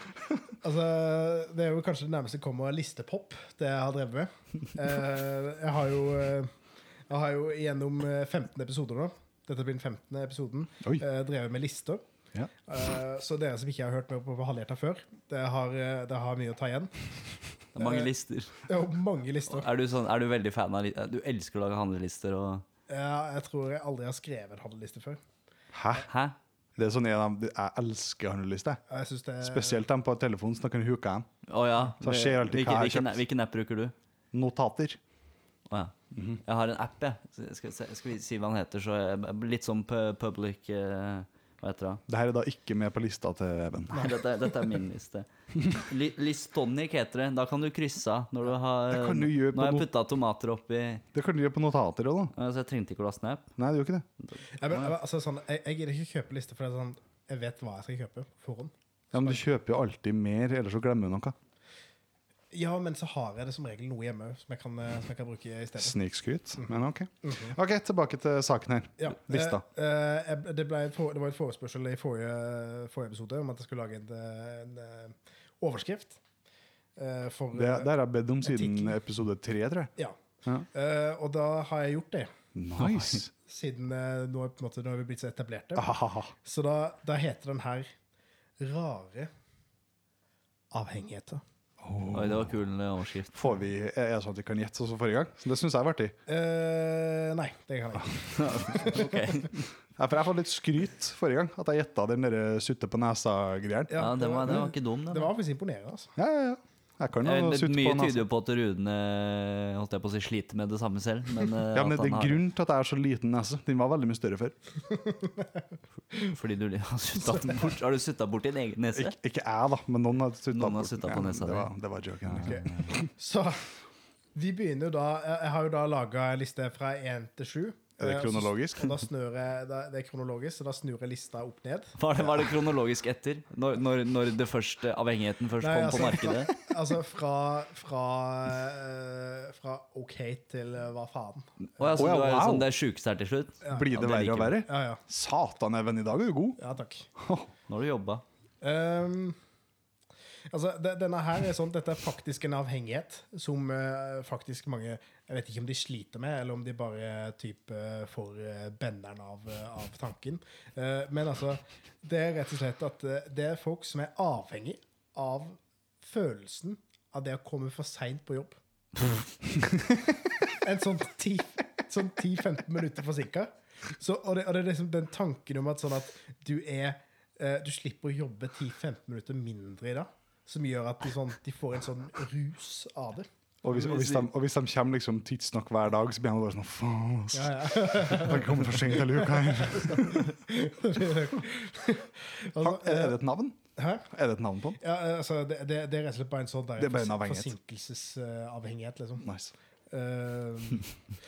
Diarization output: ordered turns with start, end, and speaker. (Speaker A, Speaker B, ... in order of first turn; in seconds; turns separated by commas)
Speaker A: 0.6-6.5, Speaker A: 7.1-12.0, Speaker A: 12.7-17.1, Speaker A: 17.8-18.1, Speaker B: 17.8-18.6, Speaker A: 18.7-19.7, Speaker B: 19.5-22.6, Speaker A: 22.9-25.2, Speaker C: 25.7-26.1, Speaker B: 26.0-26.3, Speaker C: 26.8-28.8, Speaker A: 28.9-29.8, Speaker C: 29.4-31.3, Speaker B: 31.4-33.9, Speaker C: 32.0-33.2, Speaker C: 34.3-35.0, Speaker B: 35.7-42.0, Speaker C: 36.1-36.4, Speaker C: 42.1-44.1, Speaker B: 43.9-51.0, Speaker C: 48.9-49.9, Speaker C: 51.1-52.3, Speaker B: 52.3-53.5, Speaker C: 53.6-54.0, Speaker B: 54.2-54.9, Speaker A: 54.6-59.4, Speaker C: 59.1-61.4, Speaker A: 62.5-66.0, Speaker C: 65.8-69.6, Speaker A: 66.6-67.6, Speaker A: 69.0-76.2, Speaker A: 77.0-77.9, Speaker C: 77.5-79.9, Speaker A: 78.4-78.9, Speaker A: 80.7-82.3, Speaker C: 82.5-83.3, Speaker B: 82.8-83.2, Speaker A: 83.3-85.9, Speaker C: 85.8-86.3, Speaker A: 86.4-87.9, Speaker A: 88.6-89.3, Speaker A: 90.7-91.4, Speaker C: 91.8-92.5, Speaker B: 92.1-93.3, Speaker C: 93.3-96.2, Speaker A: 96.3-99.3, Speaker B: 98.3-99.7, Speaker C: 100.0-104.1, Speaker A: 103.9-106.1, Speaker B: 104.0-105.3, Speaker C: 106.2-108.2, Speaker B: 107.2-112.4, Speaker C: 111.7-114.5, Speaker A: 114.9-115.6, Speaker B: 116.2-119.1, Speaker C: 118.9-123.0, Speaker B: 120.5-121.7, Speaker A: 122.4-123.6, Speaker A: 124.3-132.0, Speaker C: 128.0-129.0, Speaker B: 132.0-136.5, Speaker A: 135.6-141.9, Speaker B: 141.6-144.6, Speaker C: 141.9-142.7, Speaker A: 143.6-143.9, Speaker C: 143.7-146.6, Speaker A: 144.6-145.0, Speaker A: 146.6-147.1, Speaker C: 147.2-147.5, Speaker B: 147.7-148.2, Speaker A: 148.6-149.4, Speaker A: 150.5-168.6, Speaker A: 170.5-183.3, Speaker C: 183.6-190.3, Speaker B: 183.7-184.3, Speaker A: 187.3-193.2, Speaker C: 192.6-193.6, Speaker A: 193.8-194.1, Speaker C: 194.1-194.8, Speaker A: 194.8-199.2, Speaker C: 196.8-197.5, Speaker C: 199.2-199.5, Speaker A: 199.9-200.9